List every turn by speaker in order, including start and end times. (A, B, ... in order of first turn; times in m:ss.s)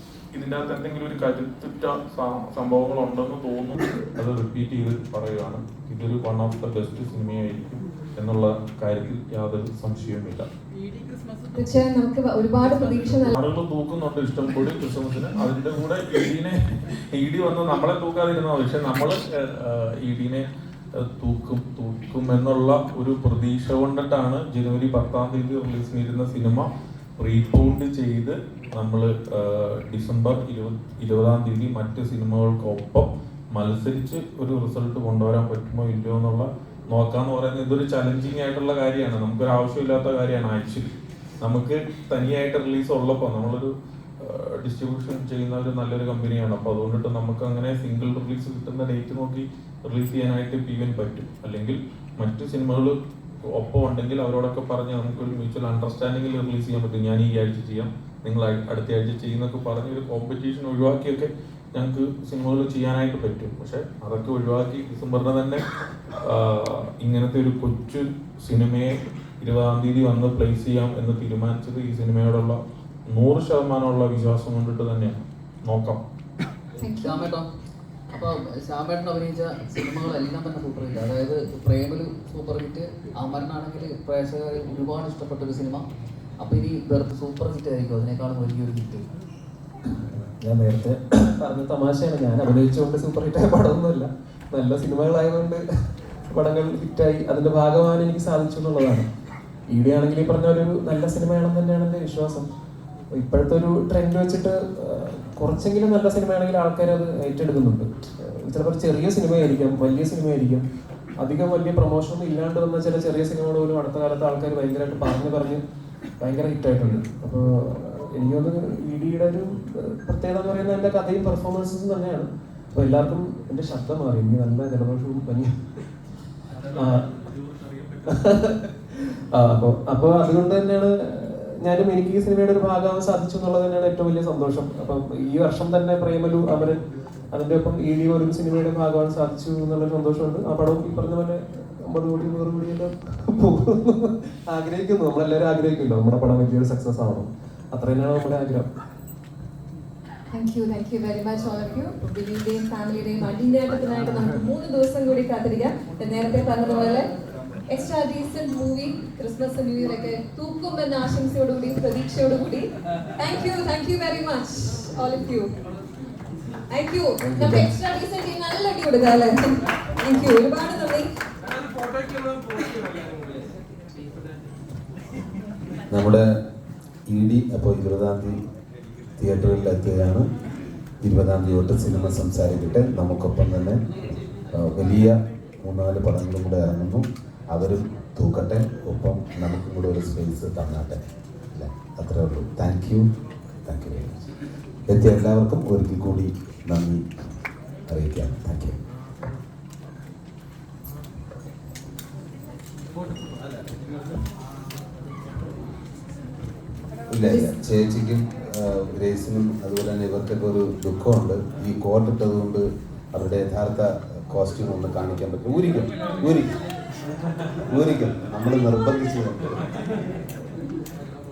0:00.3-0:10.5 A
0:11.5-0:13.3 B
0:13.3-0:20.4 A
0:21.0-0:40.9 A
0:41.4-0:52.9 A
0:53.5-1:05.6 A
1:06.2-1:16.0 A
1:16.8-1:17.2 B
1:17.0-1:17.5 C
1:18.1-1:25.8 C
1:26.4-1:29.1 C
1:29.9-1:39.1 D
1:39.7-1:42.5 D
1:43.1-1:50.6 D
1:51.2-1:55.6 D
1:56.2-2:05.6 D
2:06.7-2:07.1 D
2:08.0-2:28.7 D
2:30.3-2:37.1 B
2:37.7-2:45.5 B
2:46.7-2:51.1 B
2:55.9-2:56.2 E
2:57.1-2:58.4 E
2:59.2-3:00.3 E
3:01.0-3:03.9 E
3:04.5-3:13.1 E
3:13.6-3:14.3 E
3:14.9-3:17.0 E
3:17.9-3:18.8 E
3:27.1-3:36.6 E
3:27.2-3:27.5 B
3:37.6-3:39.6 E